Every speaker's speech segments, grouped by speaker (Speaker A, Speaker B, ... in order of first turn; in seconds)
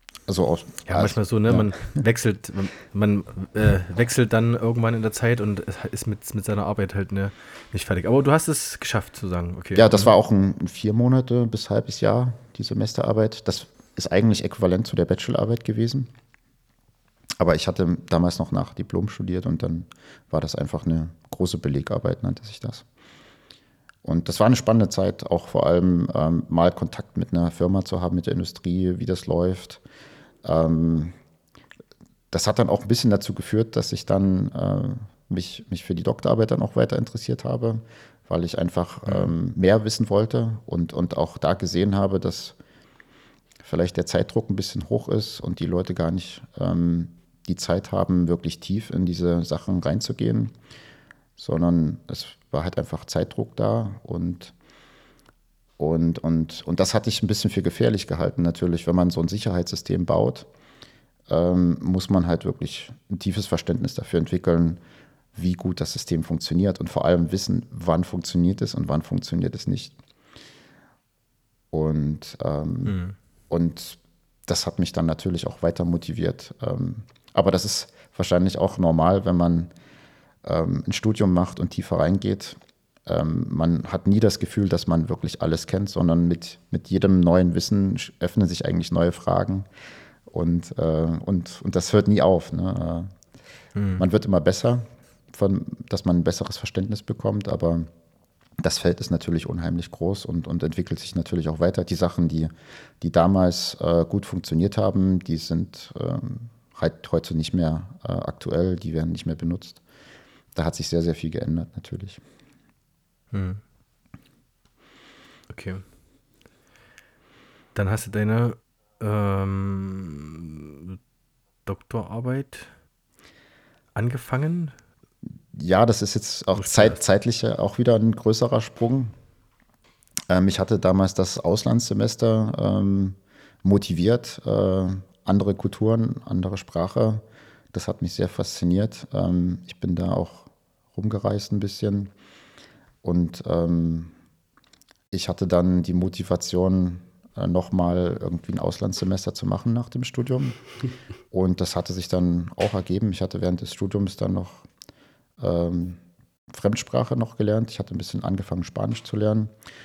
Speaker A: 0.3-2.0, 9.7-16.1, 17.4-22.8, 24.0-29.8, 30.4-31.1, 32.3-42.5, 43.6-50.5, 51.4-54.5, 55.8-60.5, 61.3-64.8, 65.3-70.0, 71.7-73.0, 73.5-79.7, 80.4-89.7, 90.3-93.1, 94.0-97.9, 98.6-109.8, 110.5-112.2, 125.5-129.1, 130.3-142.1, 143.0-144.1, 145.1-150.6, 151.3-154.7, 155.4-156.0, 156.5-159.5
Speaker B: 0.8-10.1, 39.0-39.3, 72.8-73.1, 93.7-94.0, 113.3-113.6, 115.5-115.8, 117.7-121.0, 121.7-122.7, 123.9-124.7, 126.5-127.0